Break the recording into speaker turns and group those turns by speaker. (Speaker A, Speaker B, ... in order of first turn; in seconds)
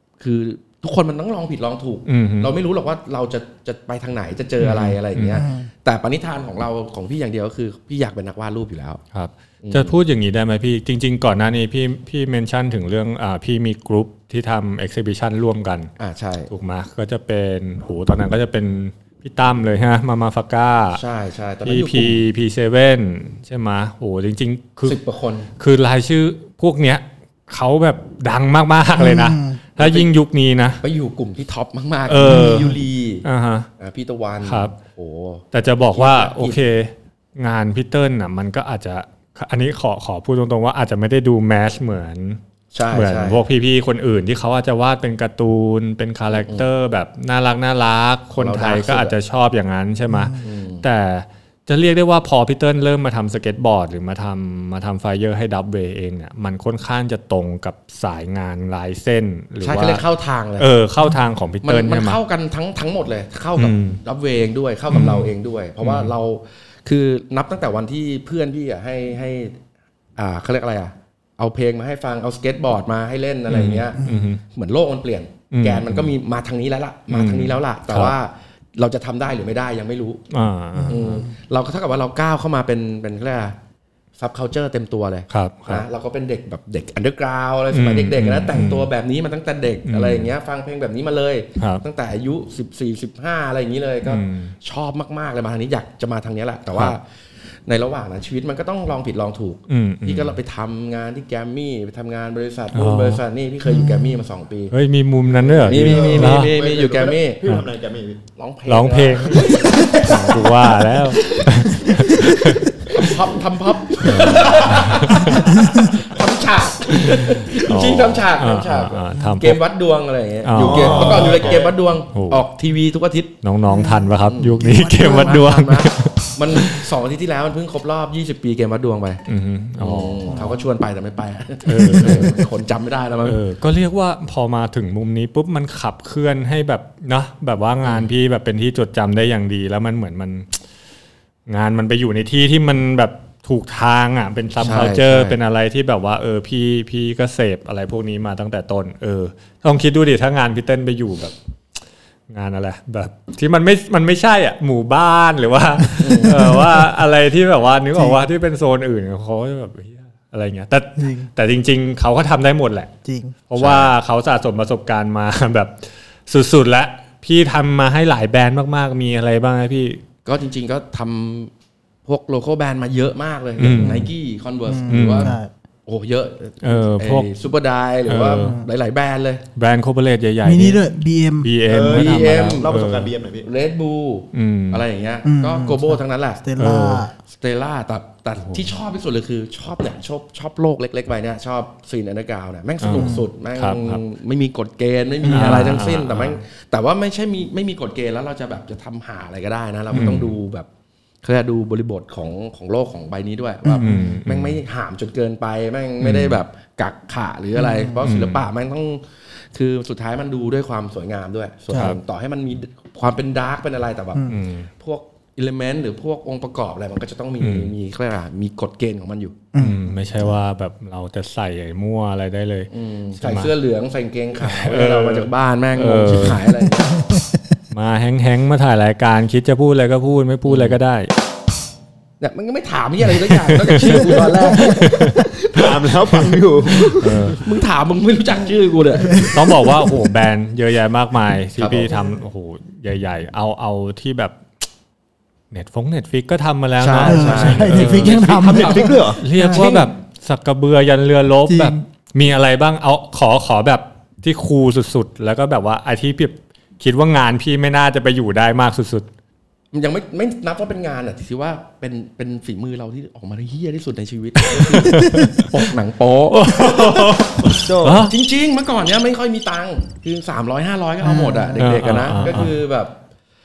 Speaker A: 0.2-9.0, 9.6-10.0, 16.0-16.5, 20.9-22.2, 24.9-25.5, 29.8-30.1, 30.8-33.2, 33.8-36.6, 42.7-43.4, 46.3-46.6, 48.3-49.1, 50.4-50.8, 59.6-60.7, 61.6-69.6, 70.2-80.2, 80.9-83.6, 84.2-97.0, 97.7-104.7, 105.6-107.4, 108.4-110.2, 112.9-123.3, 124.2-129.2, 129.8-133.4, 137.8-138.1, 144.6-145.4, 156.0-156.6, 163.6-163.9, 170.2-171.5, 172.1-179.4, 181.9-182.7, 183.4-186.4, 187.3-200.7, 201.2-219.5, 222.7-227.0, 230.5-230.8, 232.2-235.8, 236.8-239.4, 241.6-242.0, 246.8-249.9, 259.7-273.0
Speaker B: 2.1-2.5, 4.6-5.4, 9.1-15.9, 16.5-21.0, 21.6-25.0, 25.6-30.8, 32.1-33.7, 34.4-34.7, 35.5-42.4, 42.9-60.0, 60.6-62.2, 63.6-64.0, 64.9-66.1, 73.5-74.4, 75.5-76.1, 77.1-78.2, 80.3-81.2, 85.3-85.9, 87.7-88.9, 89.9-90.3, 91.6-91.8, 94.0-94.5, 99.7-100.4, 102.7-103.2, 104.7-106.6, 108.7-112.8, 114.0-115.5, 117.1-119.6, 120.4-121.6, 122.1-122.4, 123.4-126.9, 129.3-130.5, 131.7-132.5, 133.2-140.6, 141.5-151.3, 152.3-162.9, 163.5-170.0, 173.6-174.1, 174.9-175.3, 176.6-177.3, 178.1-178.6, 179.6-183.1, 184.3-184.8, 186.6-187.1, 192.8-194.0, 195.2-196.4, 199.9-200.3, 203.8-204.6, 206.0-206.4, 208.0-208.4, 211.7-212.0, 214.3-214.7, 217.4-217.7, 219.6-223.5, 224.3-226.4, 227.7-231.1, 233.1-235.2, 237.0-237.4, 239.2-244.4, 245.5-248.6, 249.2-259.1, 264.4-265.7, 266.3-268.1, 271.6-272.6
Speaker C: 5.3-5.7, 29.0-29.6, 32.2-32.7, 50.1-50.4, 74.0-74.3, 80.8-81.1, 103.7-104.2, 123.7-124.1, 124.6-125.3, 130.3-130.6, 156.2-156.8, 158.0-158.2, 161.0-161.3, 163.1-163.3, 173.7-174.1, 174.7-175.5, 178.3-178.7, 180.4-181.5, 185.2-187.1, 192.9-193.2, 195.2-195.8, 203.7-204.1, 207.6-208.0, 219.5-220.0, 226.9-227.4, 239.0-239.4, 247.0-249.7, 251.5-251.8, 265.0-265.3, 271.0-271.7
Speaker D: 105.4-108.2, 109.4-111.5, 120.5-121.8, 181.7-183.5, 235.3-237.4, 247.8-249.2, 267.4-268.1